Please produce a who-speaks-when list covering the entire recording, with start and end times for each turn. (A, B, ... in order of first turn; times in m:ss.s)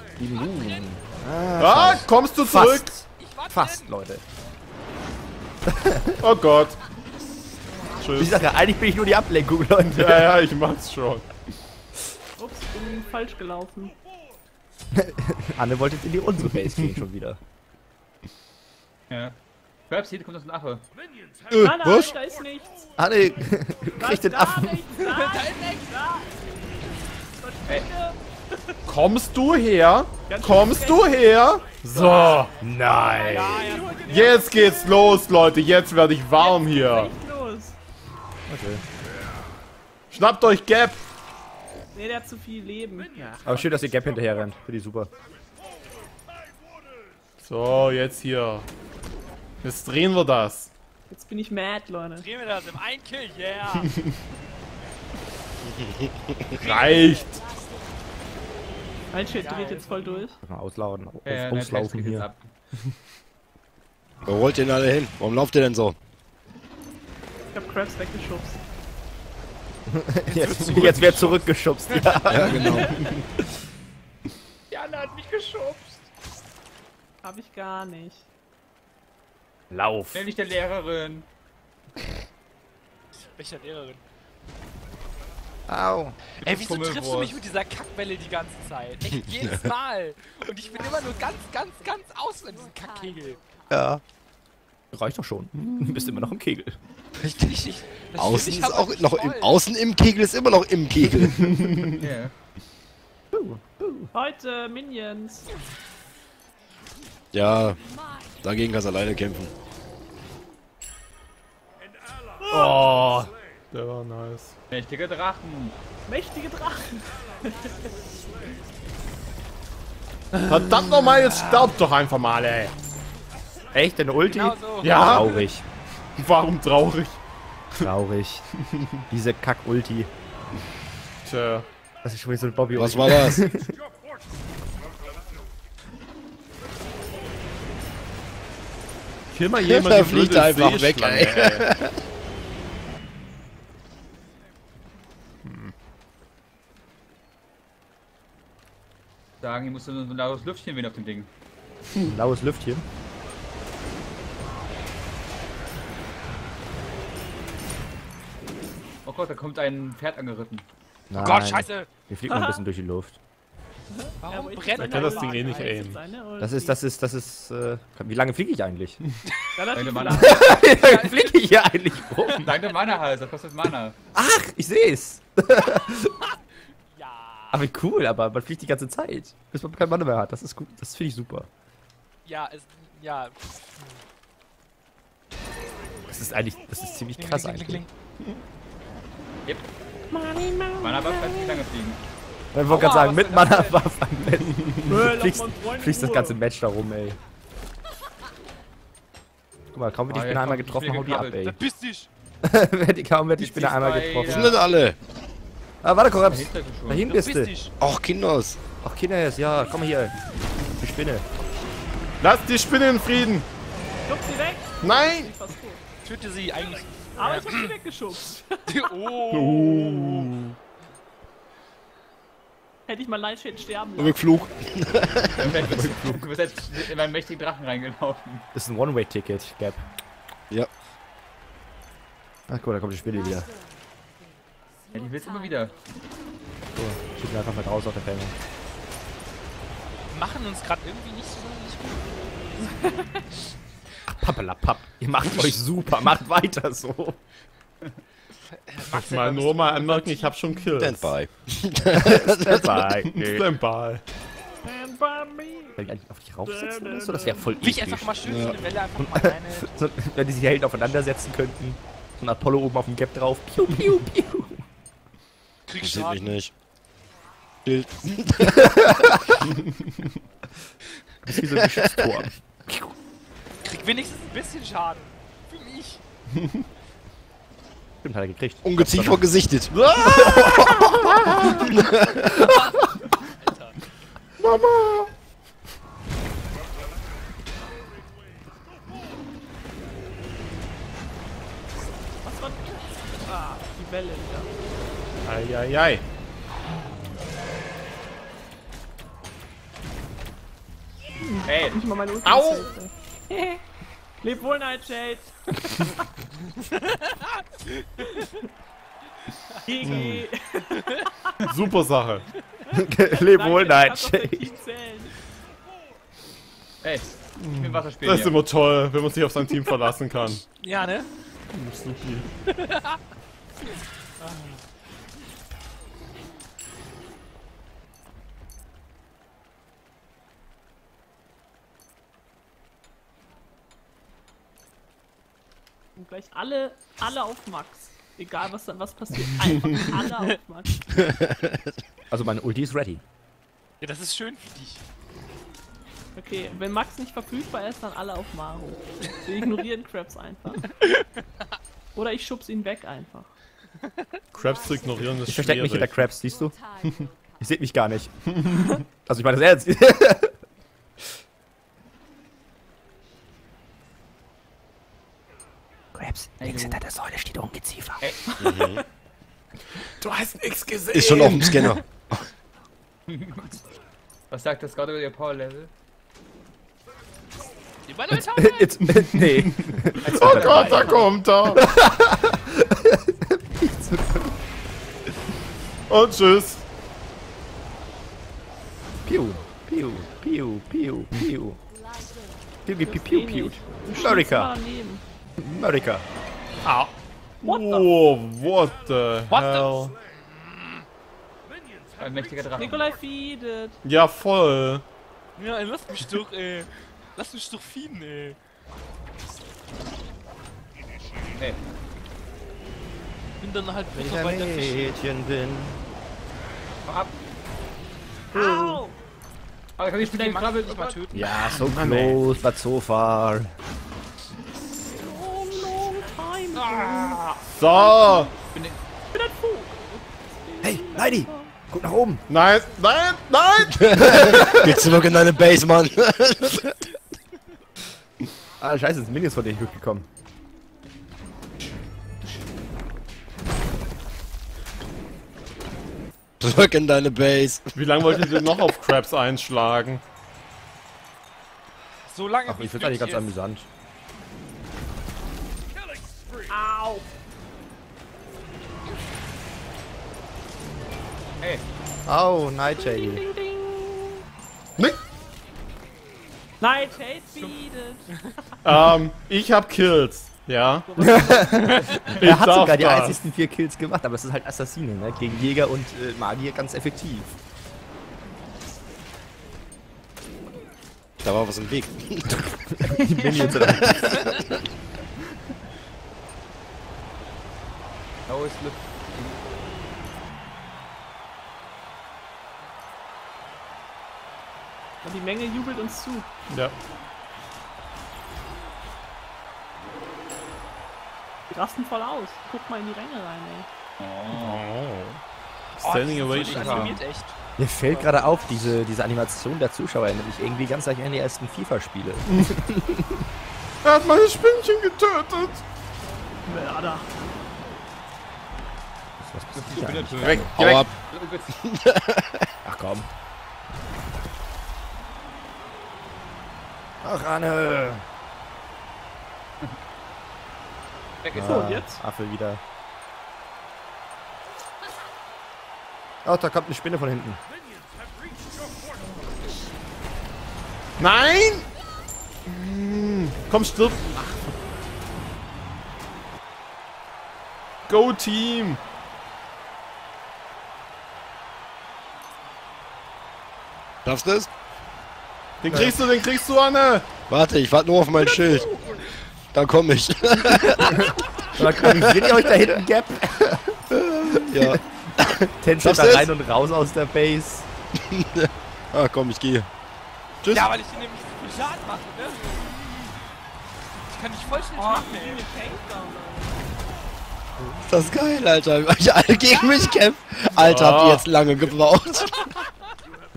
0:00.2-0:04.2 A
0:01.6-0:02.9 B
0:03.2-0:03.9 C
0:05.6-0:06.2 A
0:06.2-0:06.8 B
0:08.0-0:08.4 B
0:08.2-0:10.3 A
0:09.8-0:11.3 B
0:12.4-0:13.9 D
0:14.9-0:17.4 A
0:19.1-0:19.4 E
0:19.9-0:20.8 E
0:21.5-0:22.2 F
0:21.5-0:22.9 D
0:23.0-0:24.8 A
0:24.0-0:26.4 D
0:24.9-0:26.0 C
0:27.4-0:28.8 D
0:28.9-0:32.5 B
0:30.3-0:31.3 D
0:31.9-0:32.5 E
0:32.6-0:33.8 A
0:33.1-0:35.4 D
0:33.1-0:34.5 C
0:34.1-0:37.1 B
0:36.4-0:37.8 D
0:40.1-0:41.0 B
0:41.9-0:43.5 D
0:43.4-0:45.1 A
0:47.4-0:48.7 B
0:49.6-0:50.7 B
0:51.1-0:52.2 D
0:52.2-0:53.9 C
0:55.6-0:56.6 F
0:56.5-0:57.4 C
0:56.5-0:57.4 B
0:59.1-1:00.4 D
0:59.3-1:00.3 C
1:00.4-1:02.3 A
1:01.2-1:02.5 E
1:04.2-1:06.0 F
1:07.5-1:08.6 D
1:09.9-1:12.9 A
1:10.6-1:10.9 B
1:10.6-1:11.2 F
1:12.3-1:13.0 F
1:12.5-1:13.1 D
1:14.7-1:16.0 E
1:17.2-1:18.2 D
1:19.7-1:20.3 A
1:20.1-1:21.3 E
1:23.2-1:24.0 C
1:25.7-1:26.2 A
1:26.3-1:33.4 C
1:26.4-1:27.4 E
1:33.7-1:34.0 A
1:34.9-1:36.8 A
1:37.2-1:39.6 C
1:38.2-1:41.6 F
1:41.5-1:42.0 B
1:42.0-1:42.3 E
1:43.3-1:44.1 A
1:44.1-1:45.5 D
1:47.3-1:47.8 F
1:48.4-1:49.5 F
1:52.5-1:53.3 A
1:52.5-1:52.9 B
1:53.7-1:54.6 B
1:54.7-1:55.8 E
1:56.1-1:57.9 D
2:00.4-2:02.7 B
2:03.7-2:05.6 A
2:04.2-2:05.4 C
2:04.8-2:05.4 B
2:06.2-2:07.2 B
2:07.8-2:08.5 A
2:09.1-2:10.1 A
2:11.2-2:11.7 B
2:12.0-2:13.8 A
2:12.7-2:13.4 F
2:19.3-2:21.7 B
2:19.6-2:22.0 F
2:25.4-2:25.7 B
2:29.4-2:31.3 E
2:32.0-2:32.8 A
2:39.0-2:40.7 E
2:41.1-2:43.2 A
2:41.2-2:41.9 C
2:42.3-2:42.6 D
2:43.9-2:46.8 D
2:44.2-2:45.7 C
2:44.8-2:46.0 B
2:46.4-2:49.0 A
2:49.6-2:50.4 D
2:49.6-2:52.5 C
2:49.7-2:50.5 E
2:50.1-2:52.6 A
2:52.3-2:54.0 E
2:54.1-2:56.1 A
2:56.9-2:57.6 C
2:57.5-3:01.5 A
3:02.2-3:04.0 C
3:06.1-3:07.8 A
3:07.2-3:07.9 C
3:10.1-3:11.6 D
3:10.8-3:12.0 E
3:12.5-3:17.2 A
3:12.6-3:13.9 C
3:14.9-3:16.4 D
3:19.7-3:21.6 A
3:20.1-3:21.5 E
3:21.5-3:22.1 C
3:22.4-3:24.5 A
3:23.4-3:24.6 E
3:24.3-3:25.0 F
3:25.8-3:27.5 A
3:26.2-3:27.1 E
3:27.0-3:27.7 C
3:27.8-3:28.6 F
3:28.8-3:30.2 A
3:30.8-3:31.2 A
3:32.2-3:33.5 B
3:34.1-3:35.8 D
3:34.8-3:35.3 B
3:36.0-3:37.7 C
3:37.2-3:39.2 D
3:38.6-3:40.3 C
3:39.3-3:40.6 B
3:42.9-3:44.4 D
3:44.0-3:45.6 F
3:45.4-3:48.5 E
3:45.8-3:46.2 A
3:48.5-3:49.8 A
3:52.5-3:53.5 A
3:54.9-3:55.8 E
3:56.8-3:58.3 A
4:00.1-4:02.8 C
4:02.9-4:03.2 D
4:04.1-4:07.2 A
4:08.5-4:10.3 C
4:08.9-4:11.2 B
4:10.8-4:12.8 F
4:11.9-4:13.5 A
4:13.0-4:14.0 B
4:14.6-4:15.8 D
4:15.8-4:18.3 A
4:16.4-4:17.5 D
4:17.6-4:19.9 C
4:18.2-4:18.6 F
4:19.0-4:24.6 A
4:25.7-4:26.4 C
4:25.8-4:26.5 F
4:27.6-4:29.2 F
4:28.5-4:29.4 A
4:31.2-4:32.9 A
4:31.4-4:32.0 F
4:33.6-4:36.0 C
4:36.4-4:36.6 B
4:38.0-4:39.3 A
4:38.6-4:39.7 F
4:39.7-4:41.9 B
4:40.1-4:41.6 A
4:41.7-4:42.4 F
4:42.1-4:42.8 A
4:43.3-4:43.8 C
4:44.4-4:45.1 B
4:52.2-4:54.5 D
4:55.2-4:56.0 B
5:01.2-5:03.6 D
5:01.5-5:01.8 E
5:02.2-5:02.7 B
5:04.2-5:06.1 D
5:06.5-5:08.3 C
5:09.6-5:11.4 D
5:09.8-5:10.3 B
5:11.4-5:12.3 B
5:12.6-5:15.1 D
5:12.7-5:14.5 A
5:16.8-5:18.4 E
5:17.4-5:20.4 B
5:20.6-5:21.1 C
5:21.5-5:22.3 B
5:22.5-5:23.0 C
5:24.2-5:24.6 C
5:36.0-5:40.8 D
5:41.0-5:41.7 F
5:42.1-5:43.0 A
5:43.8-5:44.8 C
5:46.2-5:50.7 D
5:50.7-5:51.2 C
5:51.9-5:53.3 D
5:53.8-5:54.2 C
5:54.3-5:56.1 B
5:55.2-5:58.2 A
5:58.9-6:00.4 A
6:05.9-6:08.0 A
6:06.4-6:06.8 E
6:08.0-6:08.4 E
6:08.3-6:08.7 D
6:08.4-6:08.8 F
6:09.9-6:11.8 B
6:10.9-6:12.3 F
6:13.1-6:13.6 E
6:14.3-6:15.7 E
6:17.8-6:18.8 C
6:18.1-6:24.4 A
6:18.9-6:21.7 B
6:25.9-6:26.6 B
6:29.0-6:31.6 A
6:32.6-6:34.5 A
6:32.8-6:35.0 D
6:35.4-6:36.0 A
6:36.6-6:39.9 B
6:37.4-6:37.9 D
6:39.3-6:40.8 C
6:42.0-6:42.9 E
6:42.6-6:43.8 D
6:43.8-6:44.8 B
6:45.4-6:48.4 C
6:53.4-6:55.0 C
6:53.9-6:55.8 A
6:56.8-6:57.1 E
6:58.3-6:59.0 D
6:58.3-6:58.8 A
6:59.8-7:01.6 E
7:00.0-7:01.3 C
7:01.1-7:03.5 A
7:01.6-7:02.2 B
7:04.9-7:08.3 D
7:06.5-7:07.4 E
7:07.5-7:08.3 B
7:08.5-7:08.8 E
7:09.1-7:11.5 D
7:10.6-7:12.2 A
7:12.3-7:14.5 B
7:13.7-7:16.8 F
7:13.9-7:14.8 A
7:18.6-7:20.1 A
7:26.4-7:27.7 F
7:27.8-7:30.0 B
7:32.1-7:33.3 C
7:32.4-7:33.7 A
7:36.5-7:37.1 D
7:41.4-7:41.6 E
7:42.1-7:43.2 A
7:42.8-7:44.2 D
7:46.6-7:48.6 D
7:48.6-7:51.0 B
7:50.9-7:52.1 D
7:51.0-7:57.4 A
7:51.6-7:52.1 C
7:52.1-7:53.2 B
8:01.2-8:02.4 F
8:02.3-8:04.5 A
8:03.6-8:04.6 F
8:08.3-8:09.4 E
8:15.0-8:16.3 D
8:16.5-8:16.7 B
8:21.5-8:23.7 D
8:24.0-8:24.6 E
8:24.3-8:25.2 B
8:25.8-8:27.0 B
8:25.8-8:28.1 C
8:26.4-8:26.9 E
8:27.6-8:33.3 A
8:33.8-8:35.6 B
8:36.5-8:37.1 D
8:39.2-8:40.5 A
8:39.5-8:41.5 E
8:40.2-8:40.8 B
8:40.5-8:40.9 F
8:41.5-8:42.5 F
8:42.6-8:43.1 A
8:47.0-8:48.0 A
8:51.2-8:51.7 E
8:51.3-8:52.6 A
8:51.4-8:52.0 D
8:56.2-8:57.4 A
9:01.0-9:01.7 B
9:02.4-9:04.5 B
9:07.9-9:08.8 B
9:14.0-9:14.5 F
9:15.6-9:17.1 B
9:15.7-9:16.0 A
9:17.3-9:18.8 F
9:18.3-9:19.0 D
9:19.4-9:22.5 F
9:20.6-9:27.7 A
9:24.3-9:26.3 F
9:28.0-9:29.7 F
9:30.5-9:33.0 C
9:34.1-9:35.4 C
9:34.7-9:36.6 D
9:37.8-9:42.5 F
9:40.6-9:41.3 B